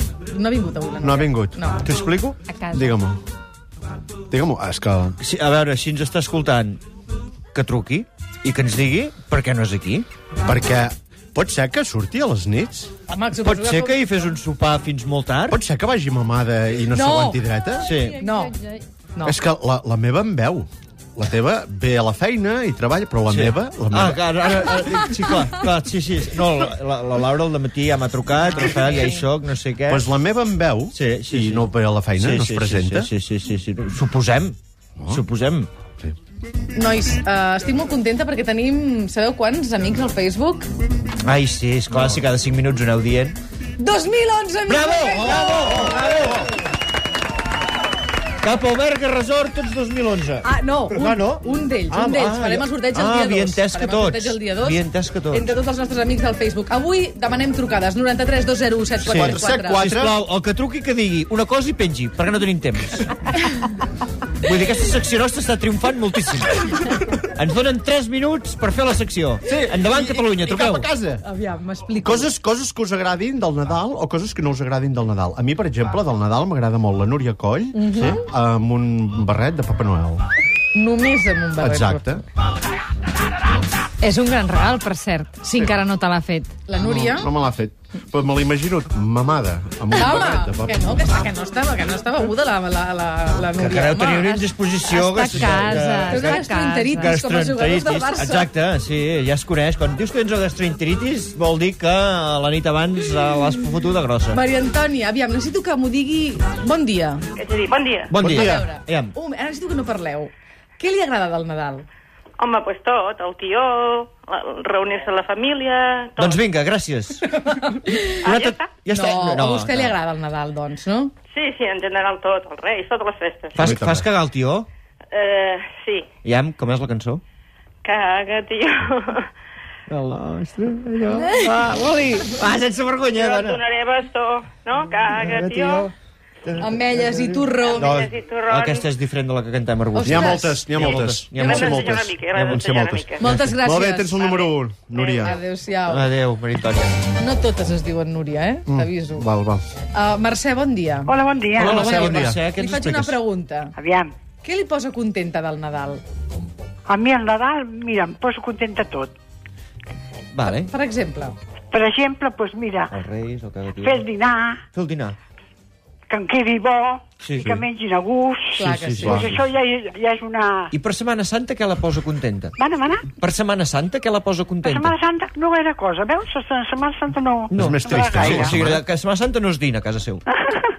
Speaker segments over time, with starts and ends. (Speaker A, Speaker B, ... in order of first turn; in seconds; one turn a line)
Speaker A: 0.3-1.9
Speaker B: 1.0-1.6
Speaker C: 1.8-2.4
Speaker D: 2.5-3.0
Speaker B: 2.7-3.2
Speaker B: 4.3-5.2
Speaker C: 5.2-6.8
Speaker C: 7.5-10.1
Speaker B: 10.4-12.9
Speaker A: 13.1-14.1
Speaker C: 13.4-15.6
Speaker B: 15.5-17.9
Speaker A: 16.9-17.4
Speaker C: 17.8-18.2
Speaker D: 17.9-18.9
Speaker A: 18.2-18.5
Speaker B: 19.2-24.8
Speaker C: 23.3-30.0
Speaker B: 29.9-33.1
Speaker C: 30.9-34.5
Speaker B: 35.0-35.2
Speaker C: 35.1-35.7
Speaker A: 36.7-40.7
Speaker C: 41.2-43.4
Speaker B: 41.9-42.2
Speaker A: 43.8-46.1
Speaker C: 44.7-46.5
Speaker C: 48.4-55.5
Speaker A: 50.4-59.8
Speaker B: 59.0-60.2
Speaker C: 59.0-63.1
Speaker C: 64.4-70.9
Speaker B: 69.5-71.2
Speaker A: 71.2-72.3
Speaker B: 72.0-80.2
Speaker A: 77.8-78.2
Speaker A: 80.7-82.2
Speaker B: 81.6-82.2
Speaker D: 84.0-86.5
Speaker B: 85.5-85.8
Speaker A: 86.7-87.3
Speaker B: 86.8-90.8
Speaker A: 89.9-94.3
Speaker C: 93.6-104.4
Speaker D: 94.1-97.1
Speaker A: 95.5-98.5
Speaker A: 104.3-107.2
Speaker E: 107.4-108.1
Speaker C: 108.1-109.1
Speaker B: 108.2-108.7
Speaker A: 108.3-111.8
Speaker E: 112.4-116.4
Speaker C: 116.2-117.7
Speaker A: 117.3-118.1
Speaker C: 118.2-120.0
Speaker E: 118.2-118.7
Speaker A: 118.9-121.1
Speaker E: 121.3-123.6
Speaker C: 123.5-124.7
Speaker B: 123.5-124.1
Speaker E: 125.1-126.1
Speaker C: 126.2-127.2
Speaker E: 127.8-129.3
Speaker C: 129.9-133.6
Speaker E: 133.1-135.9
Speaker C: 135.0-135.9
Speaker C: 136.4-141.6
Speaker A: 136.6-137.9
Speaker E: 137.6-138.9
Speaker A: 139.9-140.8
Speaker B: 140.0-143.1
Speaker E: 141.4-143.2
Speaker C: 142.2-143.5
Speaker A: 143.2-144.2
Speaker B: 143.6-145.3
Speaker E: 144.9-145.3
Speaker A: 145.2-146.1
Speaker C: 145.8-146.9
Speaker A: 147.2-149.2
Speaker B: 148.7-149.6
Speaker A: 149.9-151.1
Speaker F: 151.1-152.2
Speaker C: 151.5-153.2
Speaker B: 151.6-152.4
Speaker A: 151.7-153.8
Speaker F: 153.8-154.1
Speaker A: 154.4-156.0
Speaker F: 156.9-159.1
Speaker C: 160.3-160.7
Speaker A: 160.6-161.3
Speaker F: 161.7-162.9
Speaker C: 162.9-164.1
Speaker F: 163.8-164.6
Speaker C: 164.7-165.2
Speaker F: 166.1-170.7
Speaker C: 167.2-167.6
Speaker B: 167.4-167.6
Speaker A: 168.6-169.3
Speaker B: 168.7-169.4
Speaker C: 170.7-172.5
Speaker F: 172.6-173.1
Speaker C: 173.1-174.9
Speaker F: 174.6-178.5
Speaker C: 177.5-180.2
Speaker B: 177.5-178.8